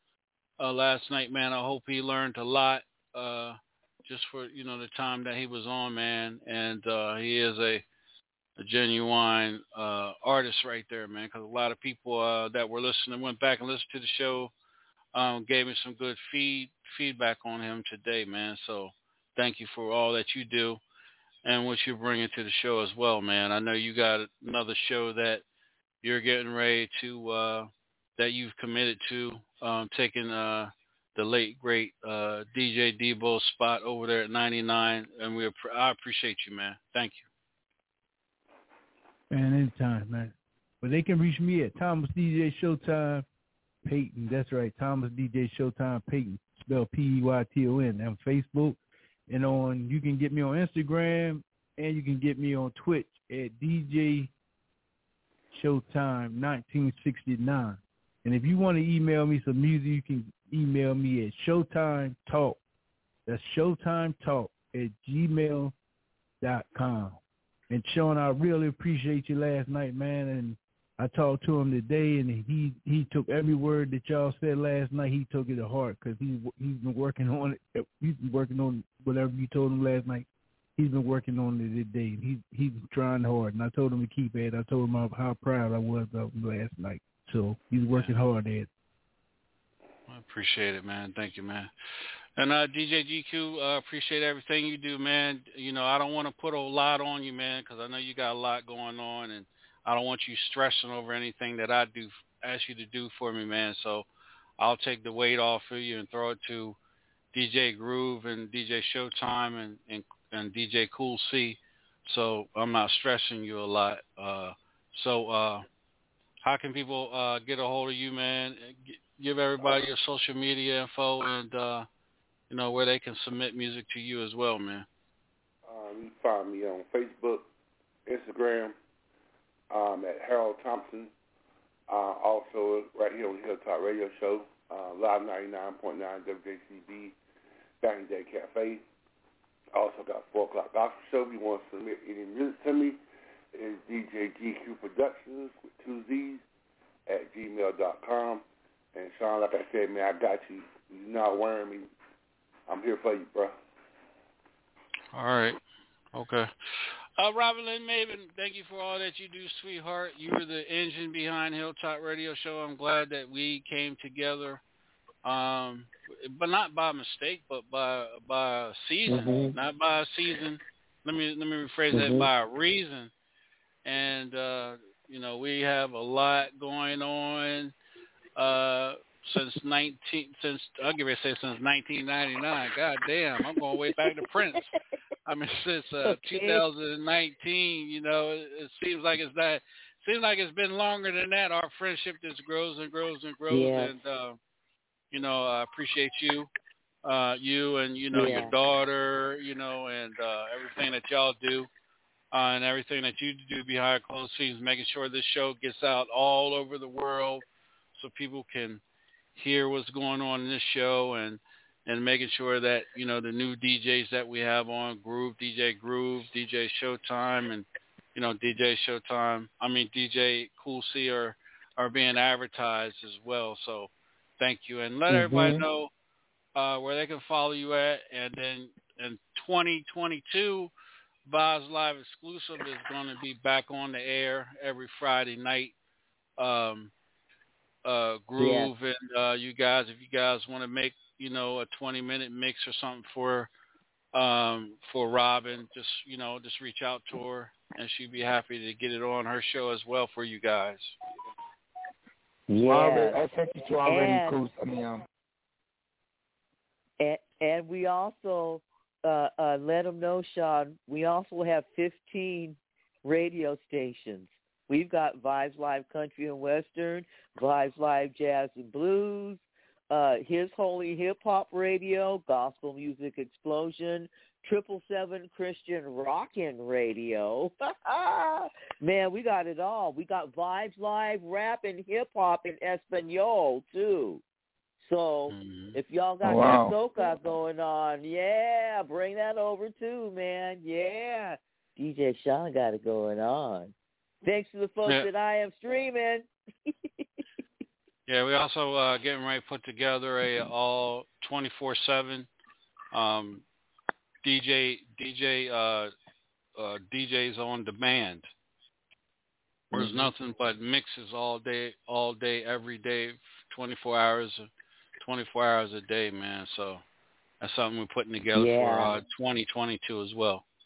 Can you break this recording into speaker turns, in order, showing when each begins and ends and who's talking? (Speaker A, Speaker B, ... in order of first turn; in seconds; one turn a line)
Speaker A: 0.6-7.8
Speaker A: 8.6-14.5
Speaker A: 15.1-20.8
Speaker A: 21.4-25.4
Speaker A: 26.0-37.3
Speaker B: 39.3-43.2
Speaker B: 43.8-48.8
Speaker B: 49.3-54.3
Speaker B: 55.5-62.6
Speaker B: 63.3-65.7
Speaker B: 66.4-67.2
Speaker B: 67.7-80.3
Speaker B: 80.8-88.7
Speaker A: 90.1-91.7
Speaker A: 92.4-104.0
Speaker A: 104.6-106.8
Speaker A: 107.3-115.7
Speaker A: 116.4-121.9
Speaker A: 122.5-124.8
Speaker C: 125.7-127.5
Speaker C: 128.1-128.7
Speaker C: 129.7-131.1
Speaker C: 131.9-137.2
Speaker C: 137.8-138.8
Speaker C: 139.7-143.0
Speaker C: 143.5-146.4
Speaker C: 147.1-151.9
Speaker C: 152.7-153.5
Speaker A: 155.1-155.6
Speaker A: 156.1-156.5
Speaker A: 157.2-164.6
Speaker A: 165.2-173.1
Speaker D: 169.2-169.5
Speaker A: 173.8-177.7
Speaker A: 178.3-184.7
Speaker A: 185.3-194.4
Speaker D: 186.0-186.7
Speaker D: 193.5-193.9
Speaker A: 195.1-196.5
Speaker A: 197.0-201.7
Speaker D: 198.1-198.5
Speaker A: 202.3-207.4
Speaker A: 208.0-208.8
Speaker A: 209.3-225.9
Speaker E: 225.1-225.6
Speaker A: 226.6-230.7
Speaker A: 231.3-235.7
Speaker A: 236.4-236.9
Speaker A: 237.8-243.5
Speaker D: 238.4-238.7
Speaker A: 244.1-251.0
Speaker E: 252.5-255.0
Speaker D: 252.6-253.2
Speaker D: 253.8-254.4
Speaker D: 257.0-284.2
Speaker D: 284.8-296.3
Speaker A: 285.3-285.8
Speaker E: 286.2-286.8
Speaker A: 298.1-302.3
Speaker A: 302.9-303.4
Speaker A: 304.2-305.9
Speaker A: 306.6-308.3
Speaker A: 309.7-314.5
Speaker D: 309.7-310.1
Speaker A: 315.0-316.8
Speaker A: 317.4-320.4
Speaker D: 318.3-319.0